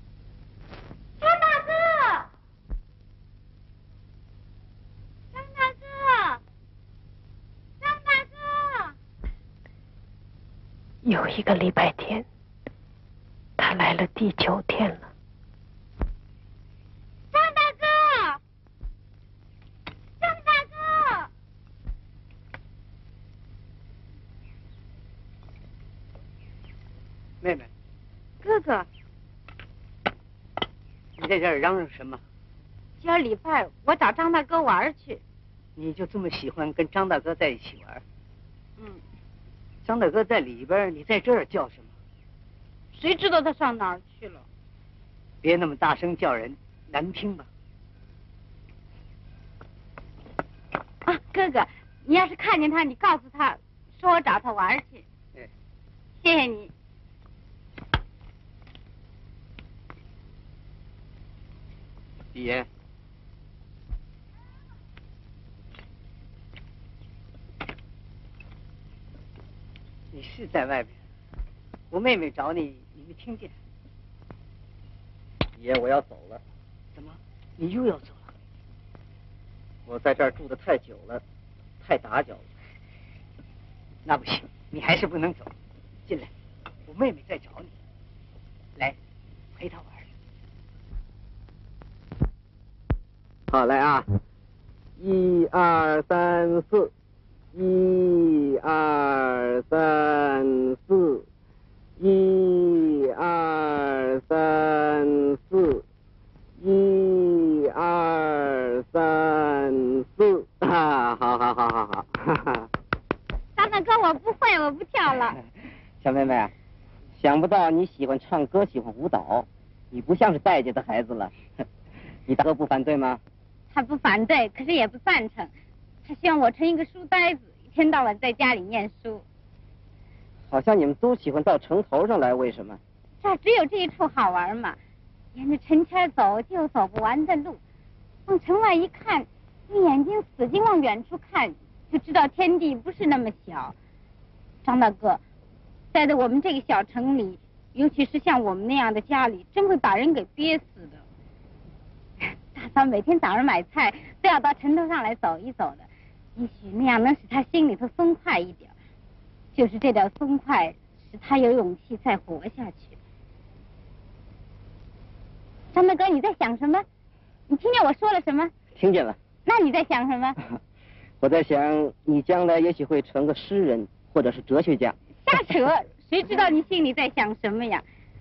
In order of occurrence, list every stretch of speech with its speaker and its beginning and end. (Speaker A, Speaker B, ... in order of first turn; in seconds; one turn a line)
Speaker A: 1.2-2.3
Speaker A: 5.3-6.4
Speaker A: 7.8-8.9
Speaker B: 11.0-12.3
Speaker B: 13.6-15.1
Speaker A: 17.3-18.4
Speaker A: 20.2-21.2
Speaker C: 27.4-27.7
Speaker D: 28.4-28.9
Speaker C: 31.2-32.2
Speaker D: 33.0-35.2
Speaker C: 35.8-38.0
Speaker C: 39.8-41.9
Speaker D: 43.0-44.5
Speaker C: 45.4-47.5
Speaker D: 51.1-55.0
Speaker D: 56.2-56.7
Speaker C: 62.4-62.7
Speaker C: 70.1-71.0
Speaker C: 71.9-73.5
Speaker E: 75.6-76.4
Speaker C: 76.9-78.3
Speaker E: 79.9-81.2
Speaker E: 81.8-82.5
Speaker C: 84.0-85.5
Speaker C: 86.9-87.7
Speaker C: 89.5-90.1
Speaker E: 93.5-94.1
Speaker E: 95.0-96.9
Speaker E: 97.5-101.2
Speaker E: 102.0-105.8
Speaker E: 106.6-112.7
Speaker D: 113.6-115.3
Speaker E: 116.0-116.5
Speaker E: 117.2-121.4
Speaker E: 122.3-123.2
Speaker D: 123.7-125.5
Speaker D: 126.0-129.2
Speaker E: 130.5-132.8
Speaker D: 133.2-134.8
Speaker D: 135.3-137.6
Speaker D: 138.3-143.8
Speaker D: 144.7-145.2
Speaker D: 145.9-151.0
Speaker D: 152.3-158.7
Speaker D: 159.6-163.0
Speaker D: 165.7-166.9
Speaker D: 167.5-168.5
Speaker E: 168.8-169.2
Speaker D: 169.5-170.4
Speaker E: 171.2-175.0
Speaker D: 175.3-177.8